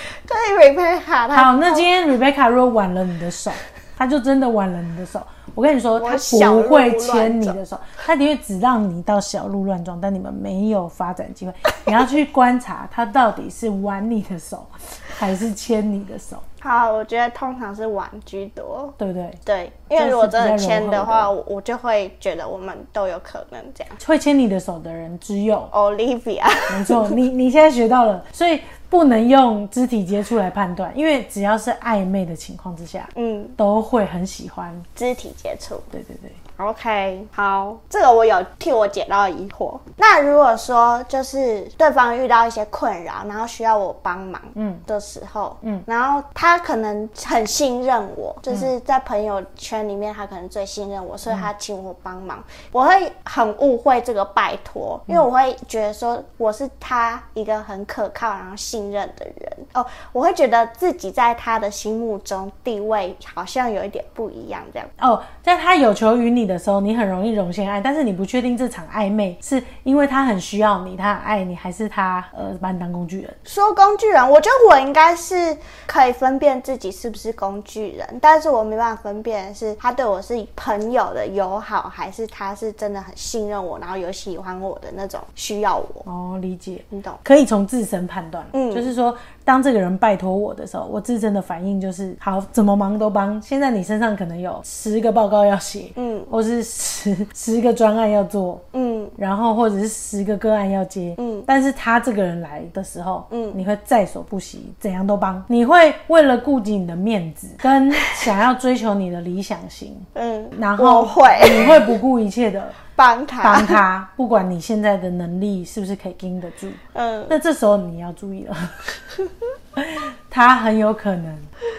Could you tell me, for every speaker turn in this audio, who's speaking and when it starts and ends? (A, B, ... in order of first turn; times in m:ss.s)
0:00.2-0:01.9 A
0:01.3-0:16.4 B
0:06.0-0:07.6 A
0:16.6-0:24.0 A
0:19.0-0:19.4 B
0:19.9-0:21.3 B
0:24.0-0:25.7 B
0:25.7-0:27.2 A
0:26.7-0:34.9 B
0:33.1-0:33.6 A
0:35.0-0:35.9 A
0:35.9-0:36.4 B
0:36.6-1:04.9 A
0:44.6-0:44.8 B
1:05.0-1:13.4 B
1:13.5-1:26.1 A
1:26.1-1:38.6 B
1:26.9-1:27.2 A
1:28.5-1:28.9 A
1:36.0-1:36.3 A
1:38.7-1:39.2 A
1:39.2-1:52.8 B
1:41.2-1:41.5 A
1:43.3-1:43.6 A
1:50.2-1:51.9 A
1:53.0-1:53.8 A
1:53.4-1:59.0 B
1:56.9-1:57.4 A
1:59.8-2:01.5 B